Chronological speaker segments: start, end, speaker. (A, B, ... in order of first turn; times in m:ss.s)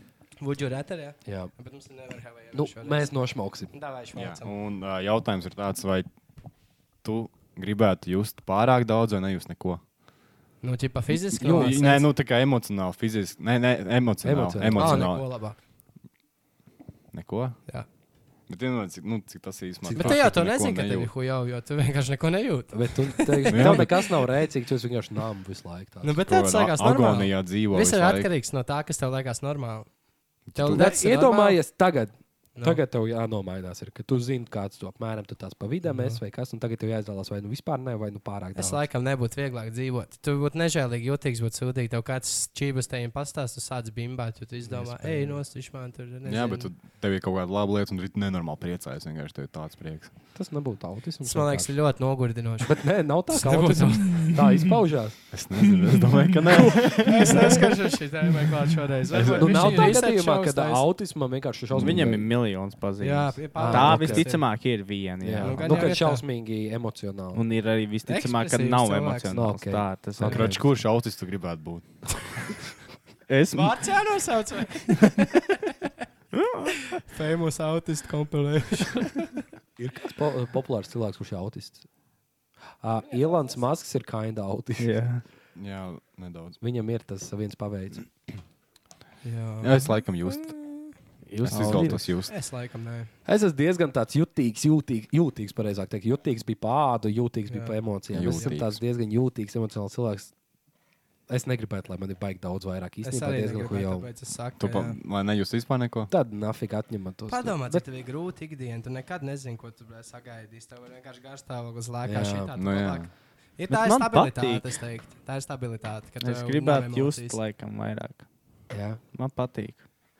0:00.4-0:03.1 A
0:01.2-0:01.5 B
0:02.5-0:03.7 B
0:03.7-0:04.5 A
0:04.1-0:06.1 C
0:07.0-0:09.8 C
0:10.6-0:12.1 A
0:11.4-0:15.5 C
0:11.4-0:11.8 B
0:14.2-0:15.1 B
0:14.7-0:15.6 A
0:17.1-0:17.6 C
0:18.5-0:21.1 C
0:19.8-0:20.2 B
0:19.9-0:24.1 A
0:22.7-0:26.2 B
0:23.5-0:24.0 C
0:26.0-0:29.9 A
0:26.3-0:28.3 C
0:30.5-0:30.9 C
0:30.5-0:31.6 A
0:30.7-0:38.9 B
0:32.5-0:32.8 A
0:35.8-0:36.2 A
0:38.5-0:46.7 A
0:44.6-0:45.4 B
0:46.2-0:50.1 C
0:50.3-0:55.2 B
0:51.2-0:54.3 A
0:55.3-0:57.7 C
0:57.0-1:00.8 A
0:59.1-1:02.3 B
0:59.2-0:59.5 C
1:01.7-1:05.7 D
1:01.8-1:02.0 C
1:03.0-1:04.5 A
1:03.6-1:04.5 B
1:05.2-1:07.4 B
1:05.4-1:06.2 A
1:07.3-1:10.6 D
1:08.1-1:09.4 A
1:09.3-1:10.6 B
1:10.2-1:12.6 C
1:13.3-1:13.8 D
1:13.5-1:15.4 A
1:16.4-1:16.6 D
1:17.1-1:19.3 A
1:19.8-1:21.9 B
1:22.8-1:25.2 B
1:23.0-1:23.6 A
1:24.8-1:25.2 D
1:25.5-1:26.6 C
1:26.6-1:28.1 B
1:29.2-1:30.8 A
1:29.6-1:30.6 C
1:31.3-1:32.1 B
1:31.4-1:32.3 C
1:31.5-1:32.0 D
1:32.2-1:33.1 A
1:33.2-1:40.3 B
1:37.5-1:38.5 A
1:38.1-1:38.8 C
1:41.3-1:44.1 B
1:43.0-1:45.0 A
1:44.6-1:46.1 C
1:46.1-1:47.8 B
1:47.3-1:57.4 A
1:52.0-1:52.5 B
1:52.6-1:53.1 C
1:53.7-1:54.7 D
1:56.2-1:58.2 D
1:58.7-1:59.0 B
1:59.1-1:59.8 D